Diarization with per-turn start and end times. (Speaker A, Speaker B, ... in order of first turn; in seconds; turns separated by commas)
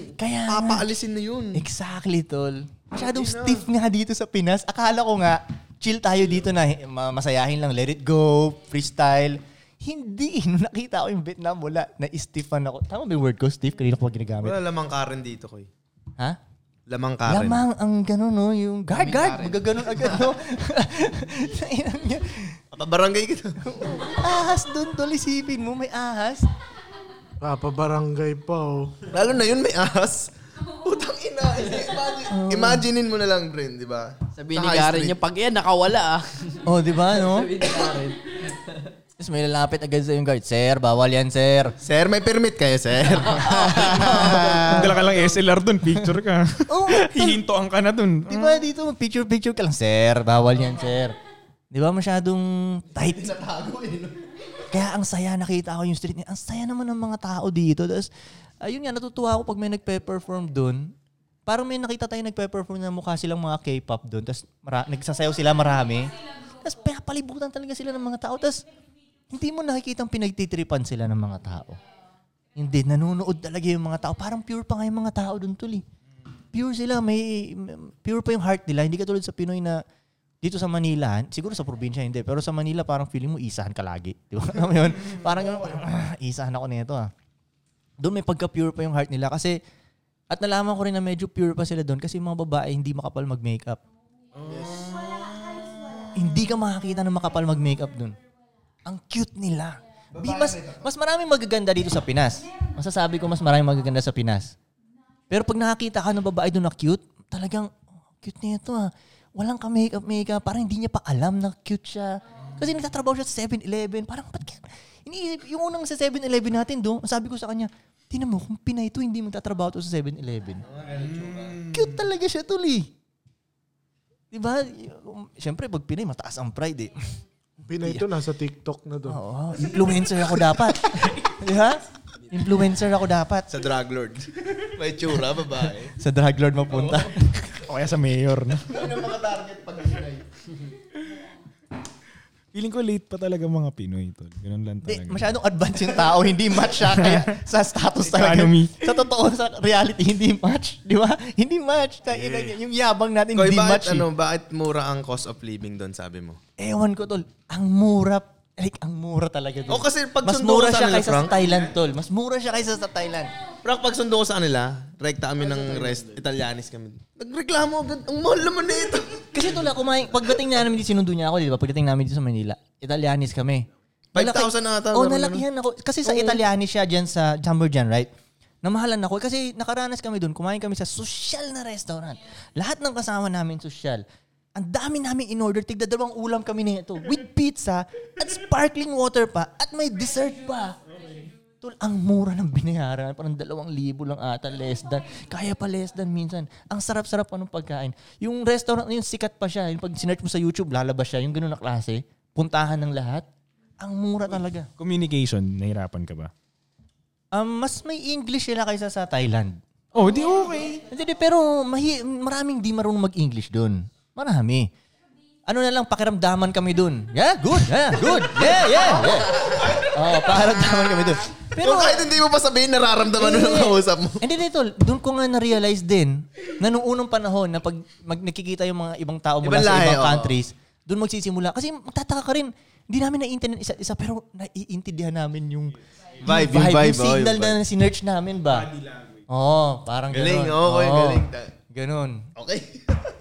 Speaker A: 0.2-0.8, Speaker B: 0.5-1.6, Speaker A: 1.5-14.6, Speaker B: 3.0-3.6, Speaker B: 14.4-15.7, Speaker B: 16.9-17.6, Speaker A: 17.3-22.6, Speaker C: 18.9-20.1, Speaker B: 22.7-24.0, Speaker A: 23.7-26.5, Speaker D: 27.4-29.1, Speaker B: 29.1-35.2, Speaker A: 32.3-32.8, Speaker C: 34.4-38.9, Speaker A: 36.6-37.5, Speaker A: 39.2-41.8, Speaker B: 41.8-44.4, Speaker A: 43.8-44.9, Speaker C: 43.9-44.8, Speaker E: 44.5-48.7, Speaker A: 46.7-47.4, Speaker A: 48.3-51.2, Speaker A: 51.7-53.3, Speaker B: 53.0-54.2, Speaker A: 54.7-58.1, Speaker A: 58.6-60.9, Speaker A: 61.5-68.7, Speaker A: 69.3-71.8, Speaker A: 72.6-75.8, Speaker A: 76.5-79.8, Speaker A: 80.4-87.1, Speaker A: 88.0-89.6, Speaker A: 90.3-93.8, Speaker E: 94.4-96.0, Speaker A: 96.1-98.2, Speaker A: 98.8-104.5, Speaker B: 100.1-100.9, Speaker A: 105.3-107.7, Speaker A: 108.2-120.7, Speaker B: 120.7-121.6, Speaker E: 121.1-121.5, Speaker A: 121.6-122.9, Speaker A: 124.3-127.1, Speaker D: 127.7-129.2, Speaker A: 129.1-133.5, Speaker B: 133.5-135.9, Speaker A: 135.9-137.3, Speaker E: 137.5-138.9, Speaker B: 138.7-140.4, Speaker E: 142.5-145.3, Speaker A: 144.8-154.1, Speaker E: 146.8-147.3, Speaker E: 148.0-148.8, Speaker B: 153.3-156.4, Speaker A: 156.6-163.3, Speaker B: 159.7-161.6, Speaker B: 163.6-169.2, Speaker A: 169.3-178.1, Speaker B: 174.1-175.4, Speaker B: 176.1-176.4, Speaker A: 178.6-184.0, Speaker A: 184.6-190.8, Speaker A: 191.6-203.3, Speaker A: 203.8-204.7, Speaker E: 204.8-206.3, Speaker A: 207.3-209.6, Speaker E: 209.9-210.8, Speaker A: 210.8-214.7, Speaker A: 215.5-222.1, Speaker B: 221.6-224.2, Speaker A: 223.2-238.7, Speaker B: 229.4-230.4, Speaker B: 236.2-237.6, Speaker E: 238.5-239.2, Speaker A: 239.3-242.3, Speaker B: 240.1-241.5, Speaker B: 242.4-243.0